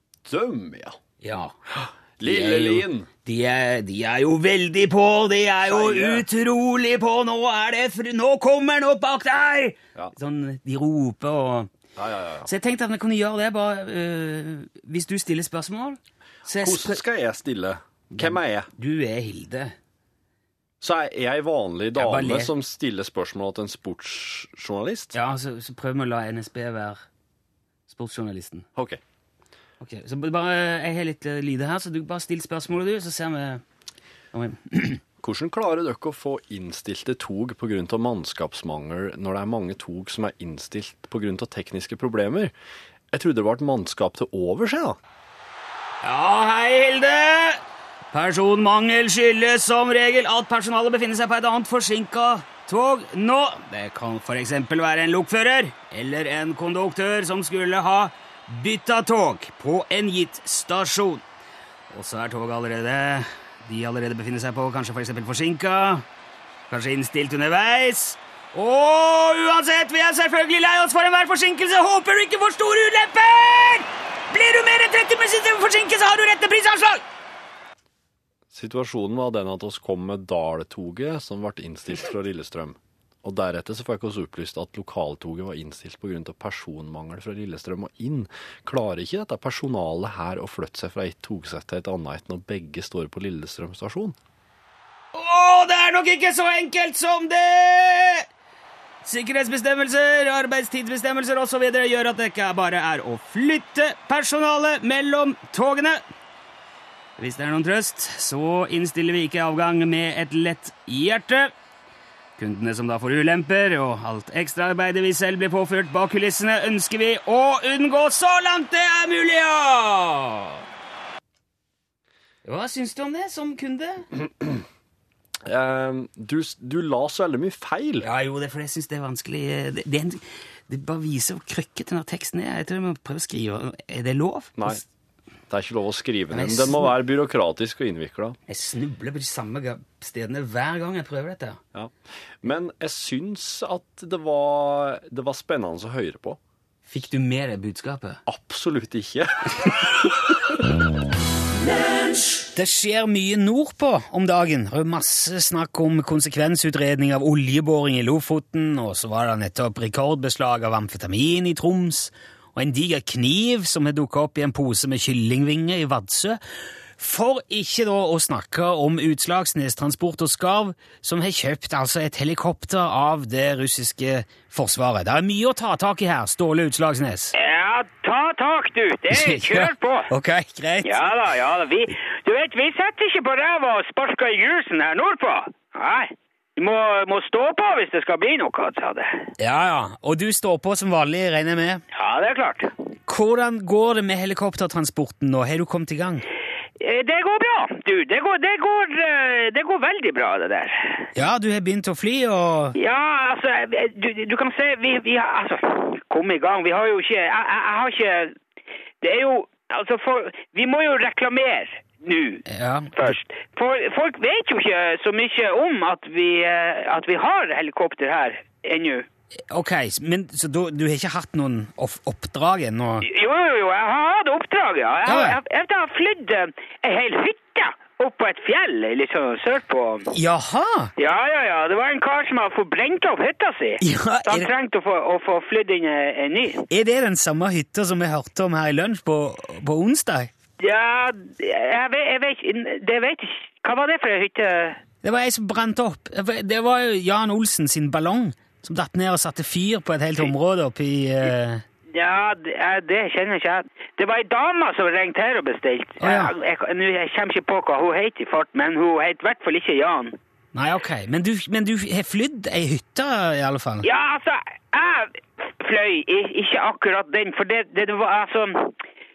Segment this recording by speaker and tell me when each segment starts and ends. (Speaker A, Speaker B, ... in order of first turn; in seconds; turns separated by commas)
Speaker A: 0.2-1.0, Speaker B: 1.2-1.6, Speaker A: 1.7-3.1, Speaker B: 2.2-11.7, Speaker A: 5.7-6.2, Speaker A: 12.0-12.5, Speaker B: 12.5-17.0, Speaker A: 16.6-18.7, Speaker B: 18.1-19.8, Speaker A: 20.8-25.1, Speaker B: 21.9-22.5, Speaker B: 25.1-27.0, Speaker B: 27.9-28.7, Speaker A: 28.8-29.0, Speaker B: 29.8-33.6, Speaker B: 34.3-35.0, Speaker A: 35.2-42.5, Speaker A: 43.1-45.0, Speaker B: 46.0-47.6, Speaker B: 48.1-61.2, Speaker B: 61.9-66.0, Speaker B: 66.7-77.0, Speaker A: 78.5-94.2, Speaker B: 95.1-98.3, Speaker B: 99.0-106.0, Speaker B: 107.2-111.5, Speaker B: 112.4-120.6, Speaker B: 122.5-124.1, Speaker A: 125.5-128.1, Speaker B: 128.0-134.8, Speaker A: 135.5-138.4, Speaker B: 136.3-136.9, Speaker B: 138.5-141.6, Speaker A: 141.7-146.4, Speaker B: 146.9-148.2, Speaker A: 148.3-150.2, Speaker B: 152.5-166.4, Speaker B: 167.0-177.3, Speaker C: 177.3-180.1, Speaker B: 179.1-181.0, Speaker C: 180.8-189.3, Speaker B: 189.4-191.8, Speaker C: 191.9-192.7, Speaker B: 193.1-196.2, Speaker C: 196.8-201.1, Speaker B: 201.2-202.8, Speaker C: 202.8-208.3, Speaker C: 209.0-212.4, Speaker B: 212.5-213.2, Speaker C: 213.0-219.1, Speaker B: 219.5-223.1, Speaker C: 223.0-230.1, Speaker B: 225.1-225.4, Speaker B: 230.1-230.9, Speaker C: 231.0-236.7, Speaker B: 233.8-234.5, Speaker B: 236.7-240.3, Speaker C: 240.6-244.8, Speaker B: 245.0-251.6, Speaker C: 251.9-260.1, Speaker B: 256.0-256.3, Speaker B: 260.5-263.9, Speaker C: 263.8-268.7